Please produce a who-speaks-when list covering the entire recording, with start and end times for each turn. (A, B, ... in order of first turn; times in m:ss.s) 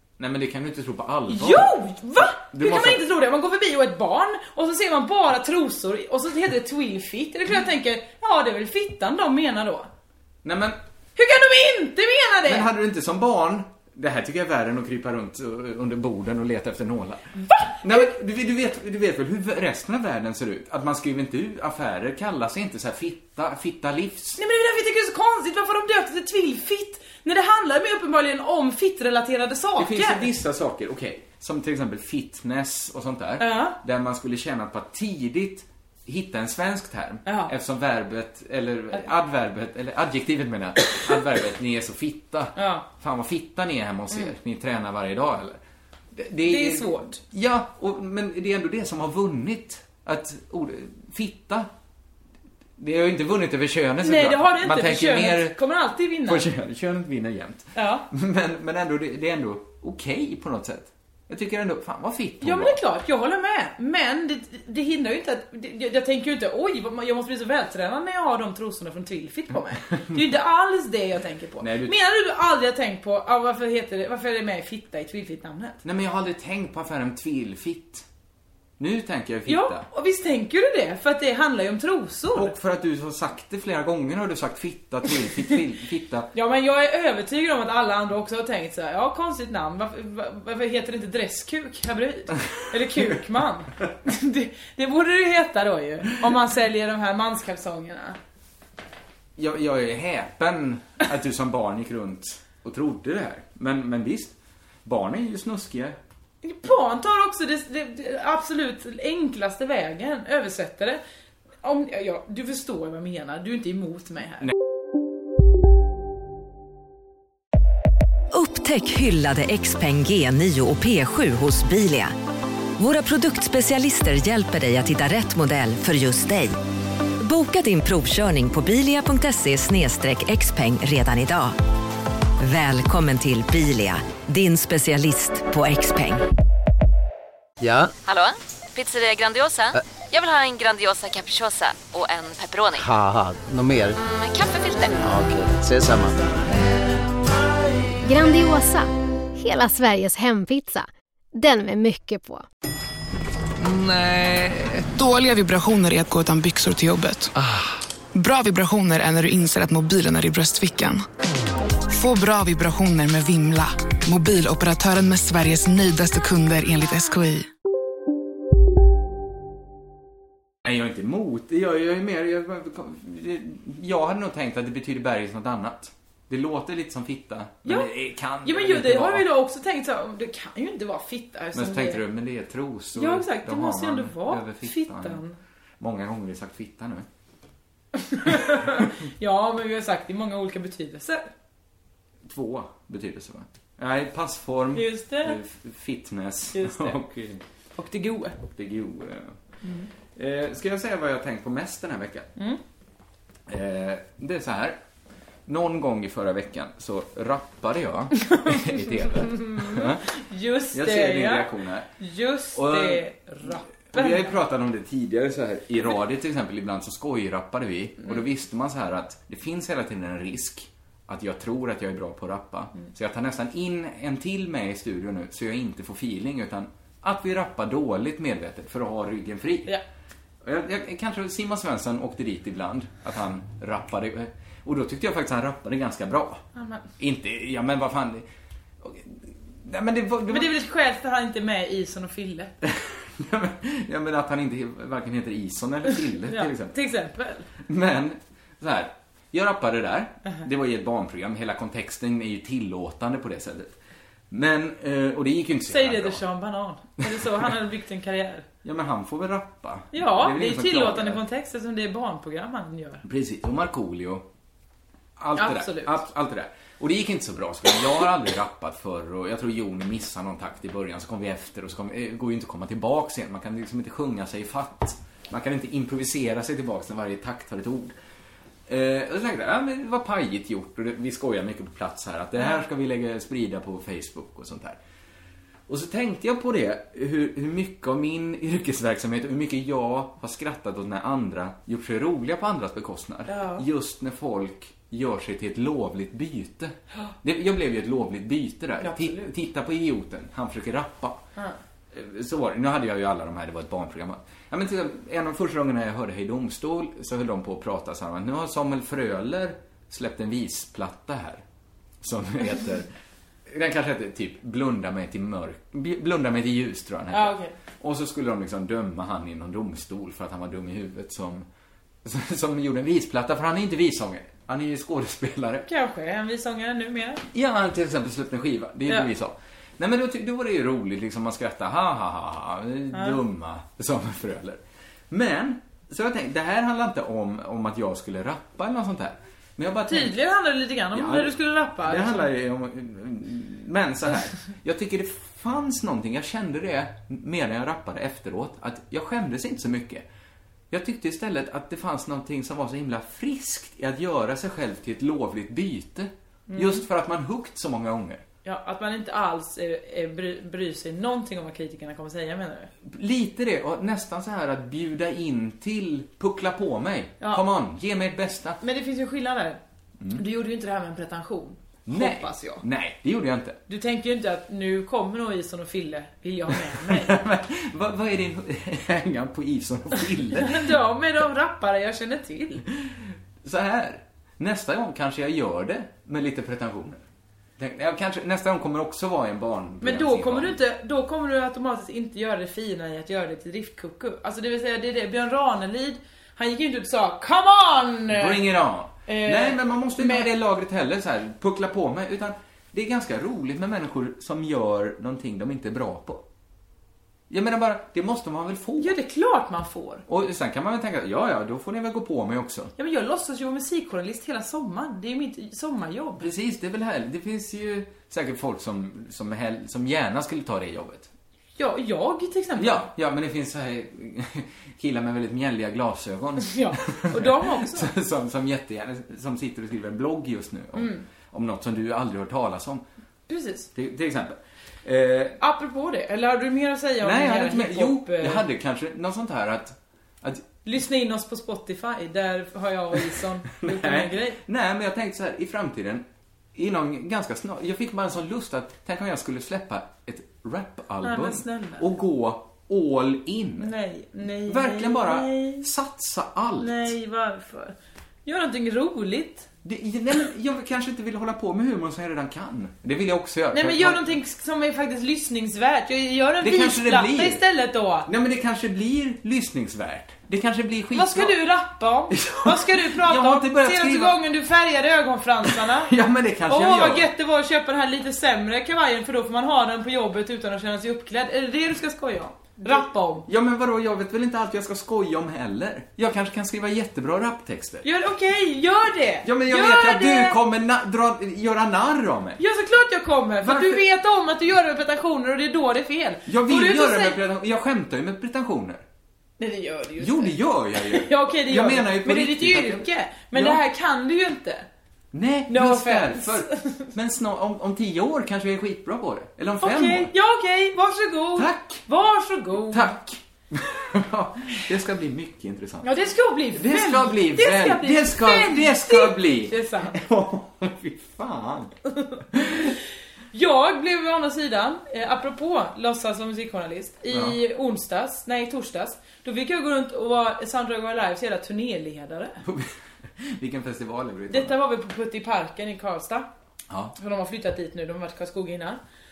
0:00.2-0:03.0 A
0:01.3-0:09.9 B
0:10.4-0:10.8 A
0:11.2-0:12.7 B
0:12.4-0:24.4 A
0:17.4-0:18.1 B
0:24.4-0:30.3 B
0:29.8-0:45.6 A
0:33.4-0:33.8 B
0:37.2-0:37.5 B
0:42.6-0:42.8 B
0:46.1-0:51.7 A
0:46.4-0:47.2 B
0:52.8-0:55.6 A
0:54.0-0:56.5 B
0:56.2-1:02.8 A
0:57.7-0:58.1 B
1:02.4-1:15.8 B
1:11.6-1:12.0 A
1:15.8-1:18.0 A
1:18.8-1:19.9 A
1:19.4-1:22.5 B
1:22.3-1:26.3 A
1:26.3-1:38.2 B
1:39.4-1:46.0 A
1:46.4-1:51.0 B
1:51.6-1:54.5 B
1:58.3-2:02.1 C
2:02.8-2:06.5 C
2:07.2-2:11.6 C
2:12.4-2:16.2 C
2:17.6-2:17.9 D
2:18.0-2:22.8 E
2:22.8-2:24.0 D
2:24.0-2:25.0 E
2:25.0-2:26.3 D
2:28.0-2:32.4 F
2:33.7-2:37.3 G
2:38.1-2:41.0 G
2:41.9-2:47.5 G
2:50.6-2:59.3 A
2:58.4-3:02.0 B
3:01.5-3:05.2 A
3:02.9-3:05.4 B
3:05.8-3:07.1 A
3:08.0-3:11.3 B
3:12.2-3:17.4 A
3:14.7-3:15.4 B
3:16.5-3:17.0 B
3:17.7-3:18.4 B
3:18.4-3:19.4 A
3:20.1-3:22.3 A
3:23.5-3:24.8 A
3:25.4-3:30.0 A
3:28.3-3:34.3 B
3:30.7-3:31.9 A
3:32.5-3:33.0 A
3:33.9-3:49.8 A
3:50.4-3:56.4 A
3:56.5-3:56.8 B
3:57.0-3:58.3 A
3:58.8-4:00.5 A
4:00.3-4:02.5 B
4:02.6-4:06.8 A
4:05.9-4:07.5 B
4:07.6-4:13.7 A
4:14.3-4:16.2 A
4:15.7-4:18.4 B
4:18.6-4:21.2 A
4:19.9-4:23.0 B
4:23.0-4:24.2 A
4:25.2-4:38.0 A
4:25.4-4:26.0 B
4:38.7-4:44.8 A
4:45.7-5:01.3 A
4:53.3-4:53.6 B
4:58.8-4:59.3 B
5:01.9-5:11.4 A
5:12.0-5:12.9 A
5:13.5-5:21.4 A
5:17.1-5:17.5 B
5:22.0-5:25.6 A
5:25.6-5:27.2 B
5:27.3-5:40.2 A
5:32.9-5:33.2 B
5:39.9-5:42.3 B
5:40.9-5:50.0 A
5:50.7-5:58.2 A
5:56.5-5:56.8 B
5:58.4-6:02.7 B
6:02.8-6:08.6 A
6:08.6-6:09.6 B
6:10.1-6:12.6 B
6:11.8-6:13.6 A
6:13.7-6:17.1 B
6:16.5-6:20.7 A
6:20.4-6:22.6 B
6:22.8-6:27.0 A
6:27.6-6:30.6 A
6:29.8-6:38.5 B
6:38.1-6:46.2 A
6:39.0-6:40.3 B
6:47.3-6:48.9 A
6:48.8-6:50.0 B
6:50.0-6:52.7 A
6:52.8-6:56.2 B
6:56.2-7:01.1 A
7:01.6-7:02.9 B
7:02.6-7:12.8 A
7:06.4-7:07.9 B
7:10.8-7:11.0 B
7:13.3-7:13.7 B
7:13.7-7:15.4 A
7:15.4-7:18.4 B
7:17.0-7:20.4 A
7:20.6-7:24.4 B
7:23.6-7:33.7 A
7:31.0-7:31.9 B
7:33.6-7:35.6 B
7:34.4-7:36.9 A
7:36.6-7:39.5 B
7:39.6-7:44.1 A
7:43.5-7:48.1 B
7:46.4-7:47.4 A
7:48.0-7:51.4 A
7:50.9-7:55.9 B
7:52.1-7:54.2 A
7:55.4-7:57.1 A
7:56.5-8:03.2 B
8:02.6-8:07.8 A
8:07.8-8:10.4 B
8:09.2-8:12.4 A
8:12.4-8:17.2 B
8:13.4-8:13.8 A
8:16.2-8:18.8 A
8:19.4-8:24.7 B
8:20.0-8:23.6 A
8:25.1-8:30.1 A
8:25.5-8:26.9 B
8:29.6-8:32.9 B
8:31.4-8:31.8 A
8:32.6-8:35.9 A
8:35.8-8:40.0 B
8:36.5-8:41.7 A
8:42.0-8:42.8 B
8:42.3-8:42.7 A
8:43.3-8:52.4 B
8:47.1-8:47.4 A
8:52.4-8:54.6 A
8:54.3-8:56.3 B
8:56.7-8:56.9 A
8:57.0-8:58.8 B